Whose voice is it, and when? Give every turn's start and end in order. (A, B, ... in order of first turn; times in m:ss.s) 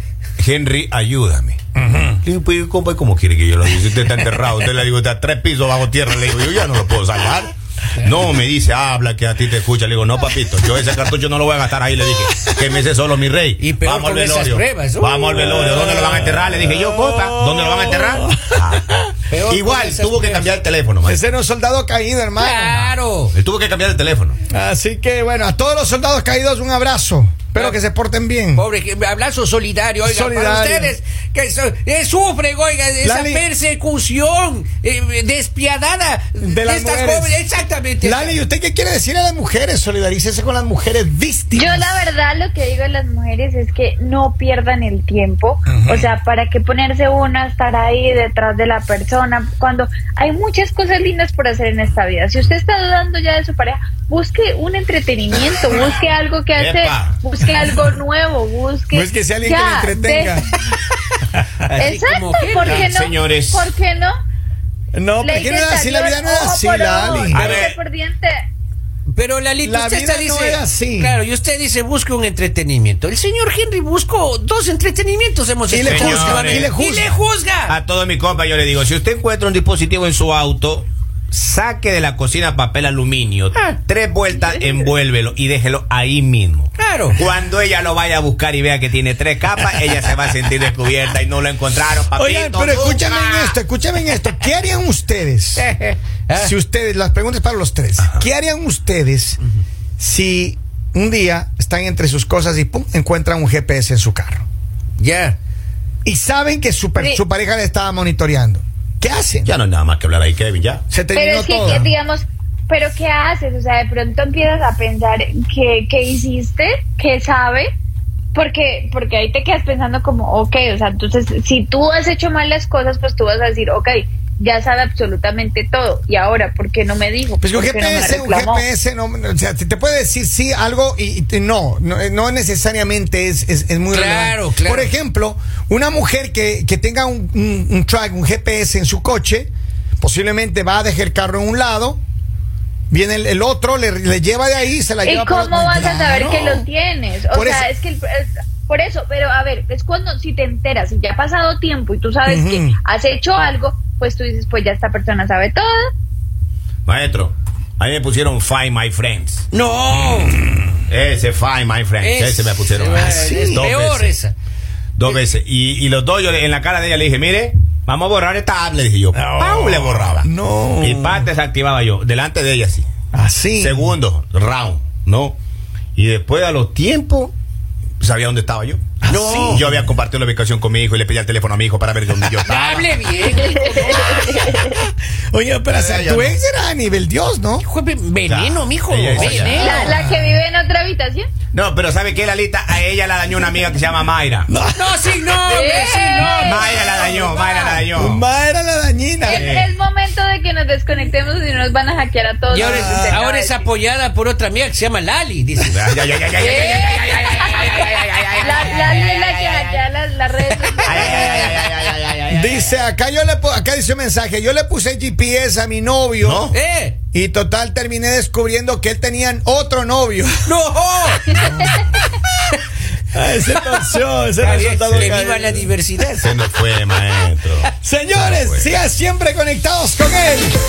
0:00.4-0:01.6 A
0:01.8-0:02.2 B
0:02.2-0:21.2 A
0:13.6-0:15.6 C
0:15.4-0:19.0 B
0:19.3-0:20.6 C
0:21.0-0:23.0 B
0:22.4-0:23.3 C
0:23.3-0:24.4 A
0:24.5-0:28.6 B
0:28.5-0:38.4 C
0:30.0-0:30.9 B
0:33.0-0:33.4 B
0:36.4-0:37.4 B
0:38.0-0:42.0 B
0:41.5-1:00.6 D
0:45.7-0:46.1 B
0:56.5-0:57.2 A
0:58.9-1:00.5 B
1:01.6-1:02.9 C
1:01.8-1:04.1 D
1:02.6-1:03.7 A
1:04.9-1:07.6 B
1:05.2-1:08.3 D
1:07.3-1:07.8 A
1:07.4-1:07.7 C
1:09.1-1:17.8 C
1:09.6-1:11.2 B
1:15.7-1:17.1 B
1:15.8-1:16.7 A
1:17.7-1:33.6 A
1:26.8-1:27.2 C
1:29.6-1:30.0 C
1:32.1-1:35.7 B
1:35.6-1:36.5 C
1:36.4-1:39.4 B
1:40.0-1:44.4 B
1:45.0-1:45.4 C
1:46.0-1:49.5 B
1:49.4-1:50.8 A
1:50.9-1:51.9 B
1:51.1-1:57.7 D
1:58.3-2:08.6 D
2:07.4-2:22.0 B
2:13.9-2:14.9 C
2:22.9-2:26.6 B
2:25.0-2:35.9 D
2:27.3-2:27.7 B
2:32.2-2:32.8 B
2:36.8-2:39.4 A
2:39.5-2:40.4 C
2:40.9-2:44.1 A
2:42.0-2:44.3 C
2:42.9-2:43.7 B
2:45.0-2:52.9 A
2:49.1-2:51.3 B
2:53.1-2:53.9 B
2:53.6-2:55.4 A
2:56.0-2:57.3 A
2:58.0-3:03.0 A
2:59.0-2:59.9 B
2:59.1-2:59.6 C
3:02.3-3:04.5 C
3:03.4-3:04.8 D
3:04.2-3:07.6 B
3:05.7-3:06.4 A
3:07.6-3:09.9 C
3:08.2-3:09.8 A
3:09.2-3:10.4 B
3:09.3-3:11.3 D
3:11.5-3:14.5 A
3:14.5-3:15.0 B
3:14.8-3:17.9 C
3:15.4-3:17.6 D
3:16.4-3:18.2 A
3:17.9-3:19.5 B
3:19.2-3:23.7 D
3:19.3-3:19.7 A
3:22.5-3:29.8 C
3:22.5-3:23.2 B
3:25.7-3:27.0 A
3:26.4-3:31.6 D
3:27.5-3:28.5 A
3:30.4-3:31.9 C
3:30.8-3:32.7 A
3:32.3-3:36.5 B
3:36.2-3:36.6 A
3:36.5-3:37.0 C
3:37.1-3:40.3 B
3:40.4-3:41.4 C
3:41.4-3:42.0 A
3:41.4-3:41.8 B
3:41.4-3:41.8 D
3:43.1-3:45.7 B
3:43.4-3:46.4 C
3:44.6-3:45.2 A
3:46.2-3:48.7 A
3:47.8-3:50.6 B